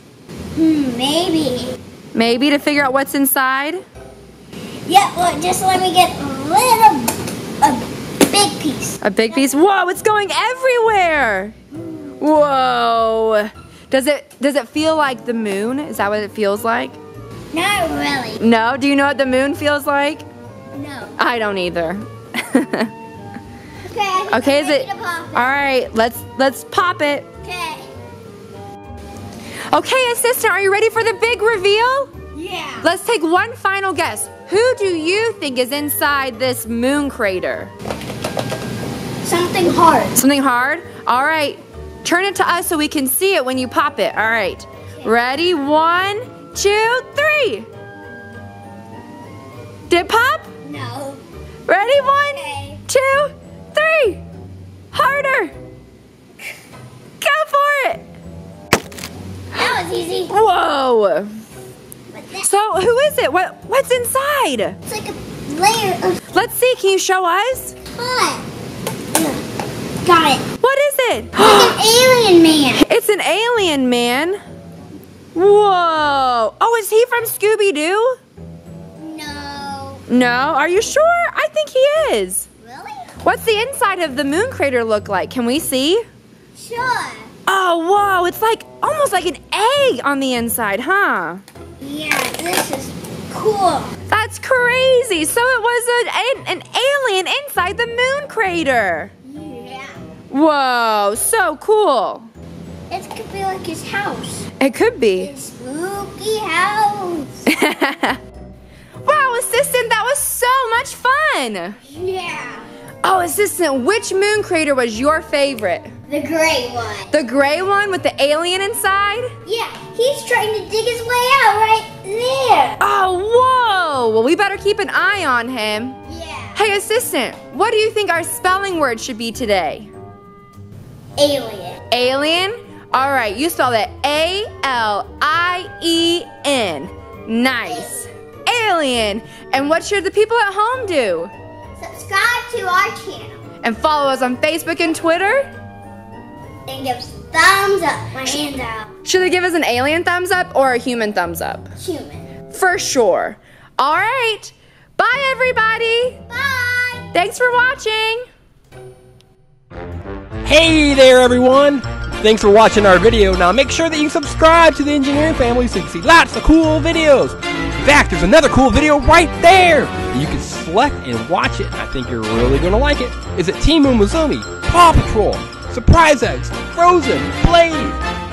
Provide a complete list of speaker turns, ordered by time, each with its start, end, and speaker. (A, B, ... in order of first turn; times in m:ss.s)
0:00.6-0:01.8 A
0:02.1-0:03.8 B
0:04.8-0:09.5 A
0:09.0-0:11.6 B
0:11.7-0:12.1 A
0:12.2-0:17.0 B
0:17.5-0:18.4 A
0:18.4-0:20.2 B
0:20.7-0:21.2 A
0:21.2-0:22.9 B
0:23.8-0:25.6 A
0:24.3-0:27.3 B
0:27.4-0:27.9 A
0:29.7-0:32.1 B
0:32.4-0:32.9 A
0:32.8-0:37.7 B
0:39.2-0:40.2 A
0:40.2-0:47.7 B
0:49.9-0:50.5 B
0:50.6-0:51.2 A
0:51.7-0:54.2 B
0:52.2-0:52.8 A
0:54.9-0:55.5 B
0:57.2-0:58.0 B
0:59.5-1:00.4 A
1:00.3-1:01.4 B
1:02.1-1:02.5 A
1:02.4-1:04.8 B
1:04.9-1:06.2 A
1:06.3-1:07.8 B
1:07.9-1:08.4 A
1:09.1-1:09.4 A
1:10.0-1:10.5 A
1:10.6-1:11.8 B
1:11.4-1:12.9 A
1:12.8-1:14.4 B
1:15.4-1:18.2 B
1:19.0-1:20.0 A
1:20.1-1:22.5 B
1:22.6-1:23.1 A
1:23.2-1:26.0 B
1:26.6-1:27.3 A
1:27.5-1:31.4 B
1:31.8-1:33.9 A
1:34.1-1:39.1 B
1:39.2-1:39.9 A
1:40.3-1:42.3 B
1:42.9-1:44.5 A
1:44.6-1:45.3 B
1:45.2-1:47.5 A
1:47.5-1:48.2 B
1:49.0-1:51.8 B
1:51.9-1:52.7 A
1:53.0-1:55.9 B
1:56.1-1:57.1 A
1:57.1-1:59.3 B
1:59.5-2:02.8 A
2:02.8-2:06.0 B
2:06.1-2:06.6 A
2:06.6-2:09.9 B
2:11.2-2:11.8 A
2:11.9-2:21.3 B
2:17.6-2:18.0 A
2:21.8-2:23.4 A
2:23.6-2:25.5 B
2:26.7-2:28.9 A
2:29.0-2:31.7 B
2:31.8-2:32.3 A
2:32.5-2:36.2 B
2:36.3-2:37.1 A
2:37.1-2:38.2 B
2:40.4-2:58.0 C